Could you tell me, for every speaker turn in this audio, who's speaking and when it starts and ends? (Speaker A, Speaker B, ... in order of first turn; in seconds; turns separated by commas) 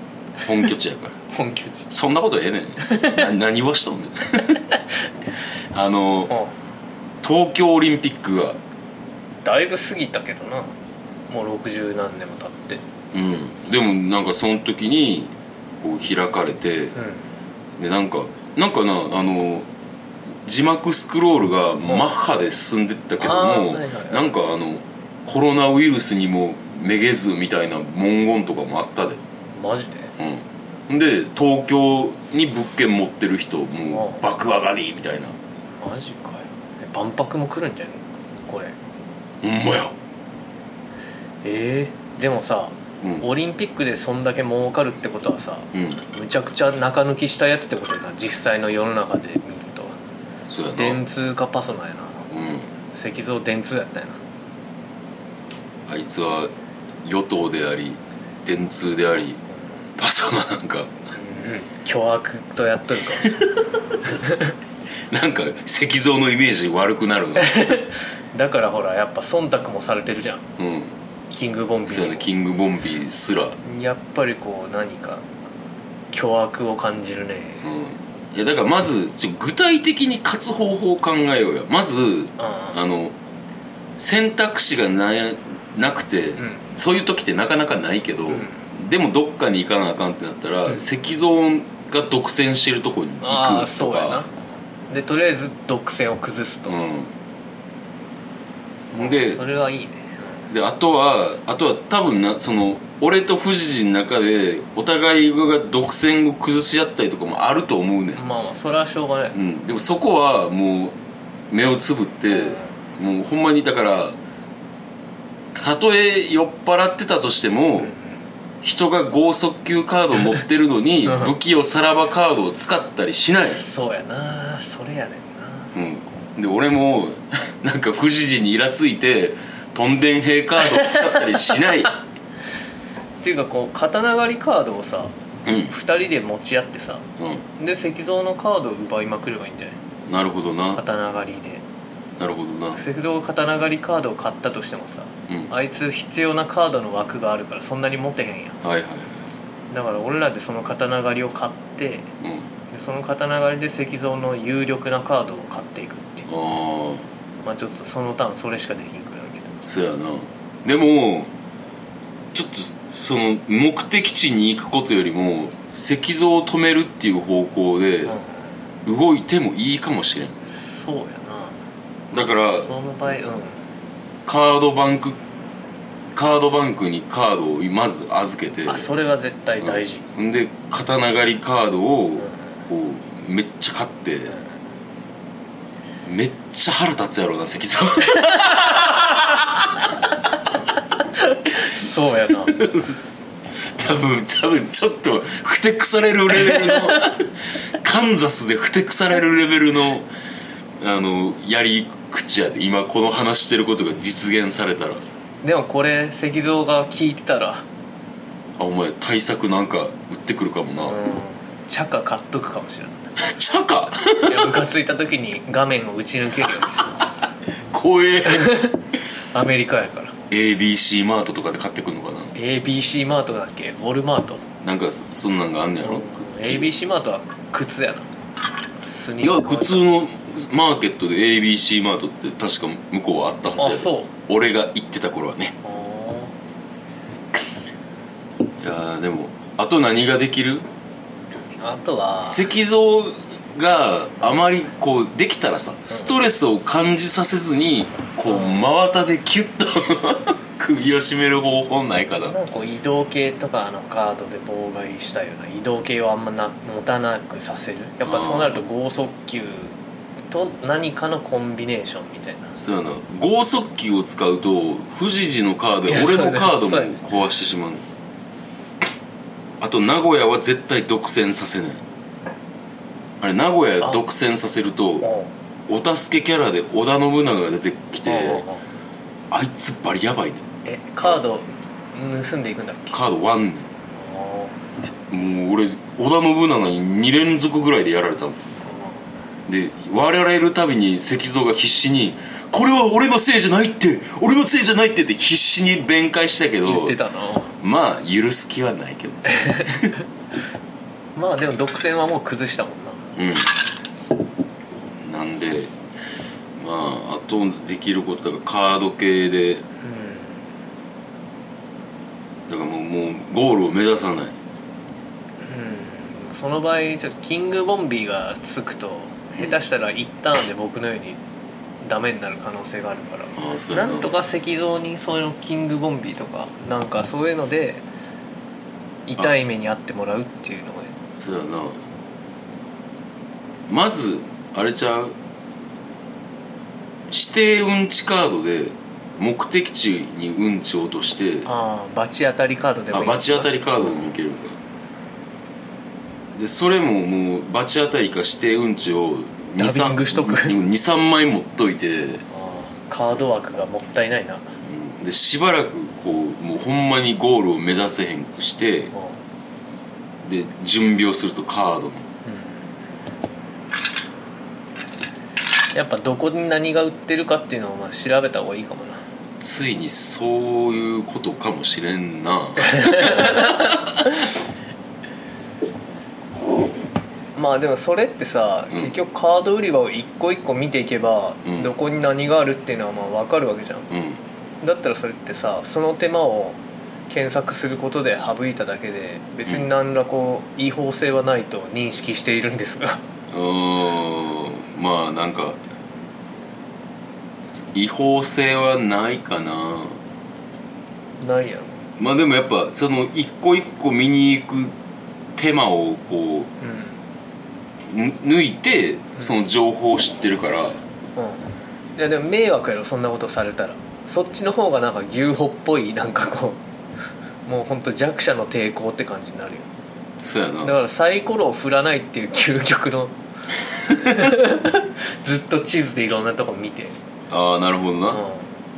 Speaker A: 0.4-1.1, Speaker B: 1.3-1.9, Speaker A: 1.9-4.6, Speaker B: 2.8-3.2, Speaker A: 5.7-6.3, Speaker A: 7.2-8.6, Speaker B: 9.4-10.7, Speaker B: 11.3-12.8, Speaker A: 13.1-16.9, Speaker B: 16.9-17.2, Speaker A: 17.8-19.7, Speaker A: 20.4-29.2, Speaker B: 23.2-24.3, Speaker B: 29.5-30.1, Speaker A: 30.2-35.4, Speaker B: 33.9-34.2, Speaker B: 35.8-38.7, Speaker A: 39.4-39.9, Speaker B: 41.4-50.0, Speaker A: 43.0-43.3, Speaker A: 45.7-46.0, Speaker A: 50.5-51.0, Speaker B: 50.8-52.3, Speaker A: 52.3-52.7, Speaker B: 52.9-54.2, Speaker A: 55.9-56.5, Speaker A: 57.0-59.4, Speaker A: 60.0-60.9, Speaker B: 61.1-63.4, Speaker B: 64.0-64.5, Speaker A: 65.1-67.7, Speaker B: 67.4-70.4, Speaker A: 70.6-70.9, Speaker B: 71.3-72.3, Speaker A: 71.9-73.6, Speaker B: 73.6-75.2, Speaker B: 76.1-77.6, Speaker A: 77.6-83.1, Speaker B: 82.4-82.8, Speaker A: 84.0-94.2, Speaker B: 88.3-88.6, Speaker B: 93.2-94.3, Speaker B: 94.9-96.8, Speaker A: 96.7-97.1, Speaker A: 98.9-99.4, Speaker B: 98.9-100.4, Speaker A: 100.5-108.2, Speaker B: 108.2-109.3, Speaker A: 109.3-111.0, Speaker A: 111.5-114.2, Speaker B: 112.3-112.7, Speaker A: 115.5-117.9, Speaker B: 117.8-118.2, Speaker A: 118.6-123.6, Speaker B: 121.0-121.3, Speaker B: 123.5-125.7, Speaker A: 125.7-131.9, Speaker B: 130.7-131.6, Speaker B: 133.2-135.1, Speaker A: 135.4-135.7, Speaker B: 135.6-137.0, Speaker A: 137.2-137.4, Speaker B: 137.6-139.8, Speaker A: 140.1-140.8, Speaker B: 140.7-141.6, Speaker A: 142.2-142.8, Speaker B: 142.7-148.6, Speaker A: 148.6-149.2, Speaker B: 149.7-152.1, Speaker A: 152.2-152.5, Speaker B: 152.7-156.3, Speaker A: 156.3-157.1, Speaker B: 157.4-159.6, Speaker A: 159.7-161.3, Speaker A: 162.3-168.2, Speaker B: 168.1-168.4, Speaker A: 168.8-170.4, Speaker B: 170.4-171.6, Speaker A: 172.1-172.7, Speaker B: 172.2-173.6, Speaker A: 174.2-175.2, Speaker A: 176.1-178.9, Speaker B: 178.7-180.0, Speaker A: 179.6-184.3, Speaker A: 186.0-189.8, Speaker B: 188.1-189.4, Speaker B: 191.1-192.6, Speaker A: 192.3-193.0, Speaker A: 193.7-200.1, Speaker B: 196.3-197.1, Speaker A: 200.8-205.0, Speaker B: 205.4-207.7, Speaker A: 208.6-211.0, Speaker B: 210.8-213.2, Speaker A: 213.2-214.6, Speaker B: 214.2-217.1, Speaker A: 217.6-218.6, Speaker B: 218.2-218.8, Speaker B: 219.3-220.1, Speaker A: 220.3-222.3, Speaker B: 222.3-224.4, Speaker A: 224.6-226.7, Speaker B: 225.8-228.1, Speaker B: 228.8-229.9, Speaker A: 229.2-235.5, Speaker B: 233.6-234.1, Speaker B: 235.6-236.3, Speaker A: 238.6-240.7, Speaker B: 241.6-242.5, Speaker A: 242.2-252.3, Speaker B: 248.3-248.7, Speaker B: 252.2-259.8, Speaker A: 258.0-258.6, Speaker B: 260.3-262.5, Speaker A: 262.6-267.8, Speaker B: 265.9-266.9, Speaker A: 269.6-271.8, Speaker A: 273.2-275.1, Speaker B: 275.0-275.3, Speaker A: 275.7-278.4, Speaker B: 278.1-278.6, Speaker A: 279.3-280.4, Speaker B: 280.6-283.0, Speaker A: 282.9-283.7, Speaker B: 283.9-284.6, Speaker A: 285.1-288.5, Speaker B: 288.6-289.1, Speaker A: 289.5-297.0, Speaker B: 296.6-297.5, Speaker A: 297.6-299.9, Speaker B: 299.3-299.9, Speaker B: 301.1-303.1, Speaker A: 303.1-303.6, Speaker A: 305.0-305.7, Speaker A: 306.6-309.6, Speaker B: 309.8-310.4, Speaker A: 312.5-314.4, Speaker B: 315.4-321.2, Speaker B: 321.8-327.8, Speaker A: 323.3-324.2, Speaker B: 329.1-330.9, Speaker A: 331.2-331.8, Speaker A: 333.7-335.1, Speaker A: 337.1-341.5, Speaker B: 341.4-344.1, Speaker A: 342.9-344.6, Speaker A: 346.3-352.2, Speaker B: 349.6-350.6, Speaker B: 352.3-354.6, Speaker A: 354.6-358.9, Speaker B: 358.9-359.2, Speaker A: 360.2-362.1, Speaker B: 362.2-362.7, Speaker B: 365.7-369.0, Speaker A: 369.4-374.3, Speaker B: 372.6-373.8, Speaker B: 377.3-383.9, Speaker A: 381.4-381.7, Speaker A: 383.9-384.2, Speaker B: 384.6-393.0, Speaker A: 393.3-395.6, Speaker A: 397.5-400.0, Speaker B: 401.2-401.8, Speaker A: 402.0-404.7, Speaker A: 405.4-406.5, Speaker B: 406.6-407.0, Speaker A: 407.9-410.8, Speaker B: 411.2-416.6, Speaker B: 417.4-419.7, Speaker A: 420.2-420.7, Speaker B: 420.6-423.1, Speaker B: 423.8-426.9, Speaker A: 427.3-428.2, Speaker B: 428.1-428.5